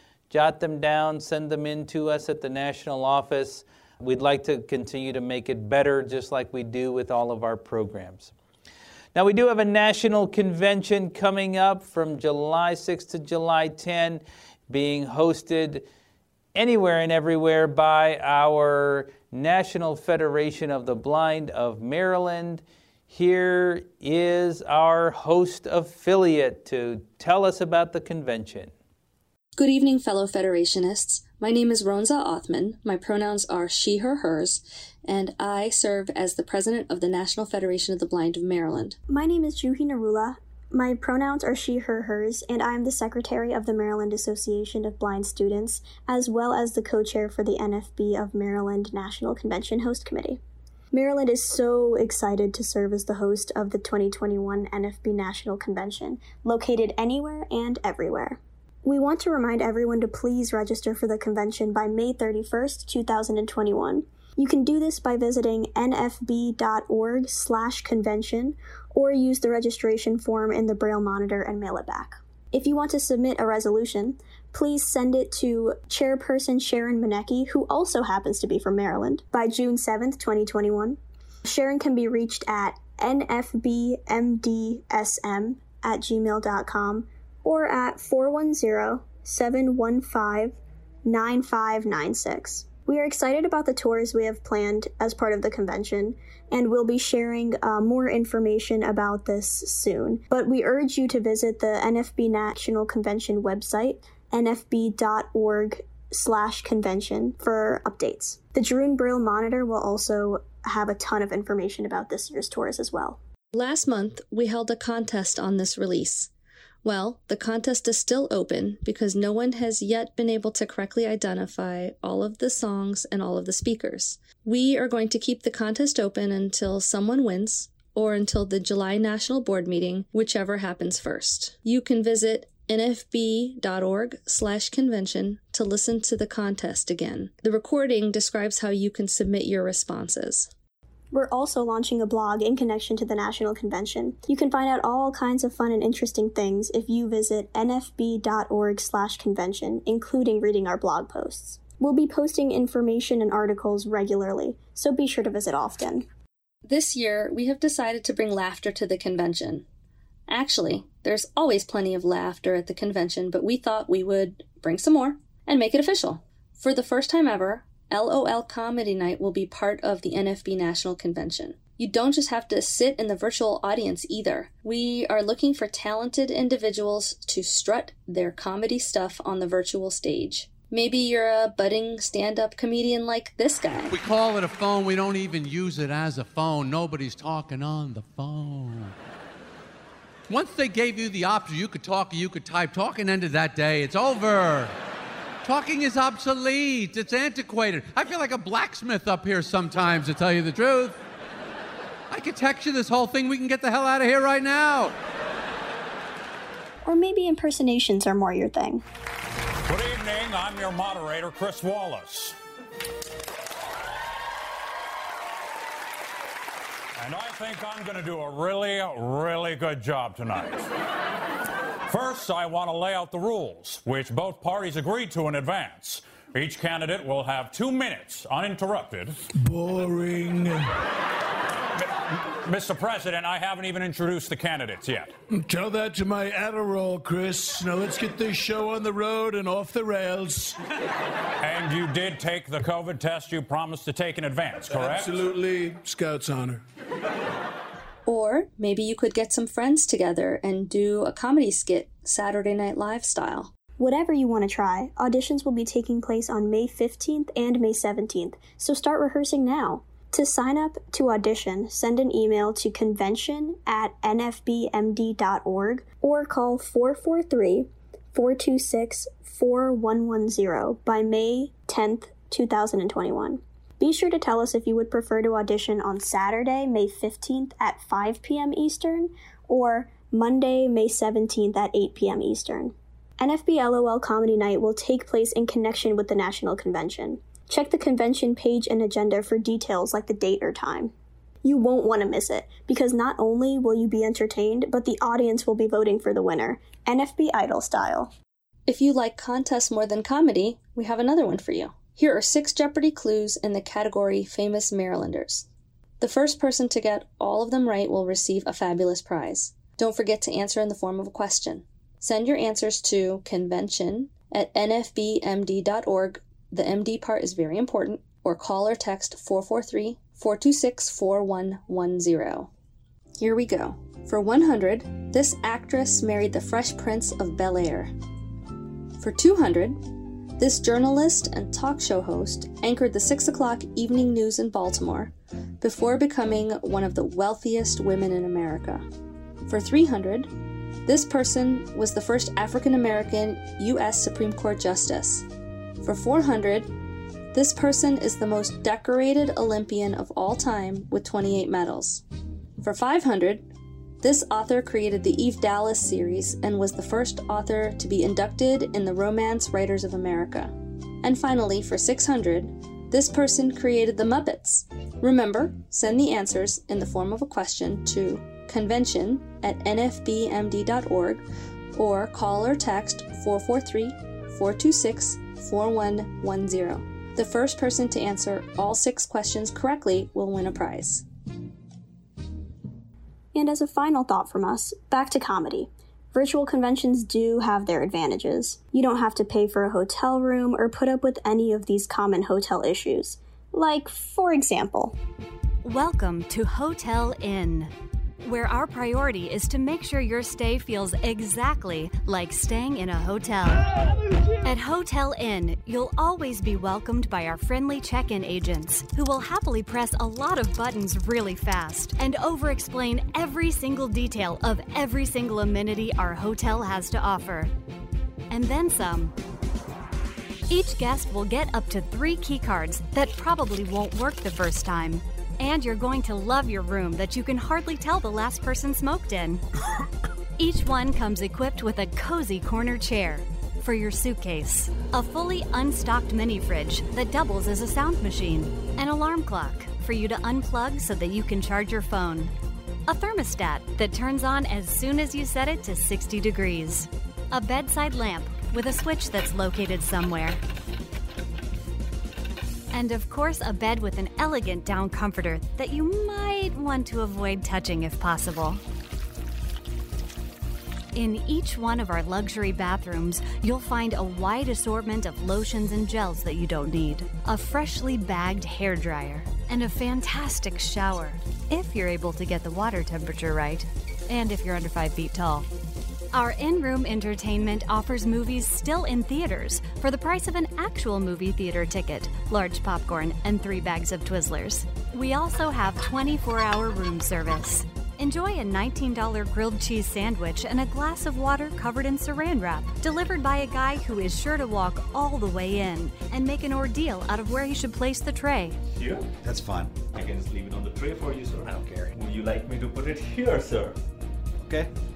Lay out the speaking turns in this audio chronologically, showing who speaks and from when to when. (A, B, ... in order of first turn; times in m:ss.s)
0:00.3-0:08.3 A
0:09.2-0:15.9 A
0:16.6-0:28.7 A
0:29.6-0:39.0 B
0:39.1-0:50.4 C
0:50.9-1:53.2 C
1:53.5-1:56.3 B
1:56.8-2:20.5 B
2:21.1-2:36.1 C
2:36.7-2:39.6 B
2:40.3-3:03.9 B
3:03.9-3:09.0 D
3:10.3-3:14.7 D
3:15.4-3:21.0 D
3:22.1-3:25.0 D
3:26.8-3:28.8 C
3:29.7-3:32.4 E
3:37.0-3:40.7 E
3:41.9-3:49.2 E
3:49.4-3:50.6 F
3:51.8-3:55.1 E
3:55.3-4:00.6 F
4:01.4-4:05.2 E
4:04.7-4:06.6 F
4:08.1-4:13.5 B
4:13.8-4:50.9 C
4:51.4-4:58.1 C
4:58.7-5:05.5 B
5:06.0-5:22.5 B
5:23.2-5:27.9 B
5:29.0-5:29.8 B
5:30.4-5:38.8 B
5:39.5-5:40.3 B
5:40.8-5:45.3 B
5:45.8-5:46.7 B
5:47.3-5:52.0 B
5:52.6-5:53.5 B
5:54.0-6:21.0 B
6:23.3-6:35.0 C
6:35.6-6:43.9 G
6:44.4-6:57.5 G
6:58.3-6:59.1 G
7:00.5-7:09.4 G
7:10.4-7:22.3 G
7:22.9-7:30.4 G
7:32.7-7:38.6 G
7:40.9-7:55.5 G
7:56.1-8:18.6 G
8:18.8-8:23.8 H
8:24.4-8:24.7 H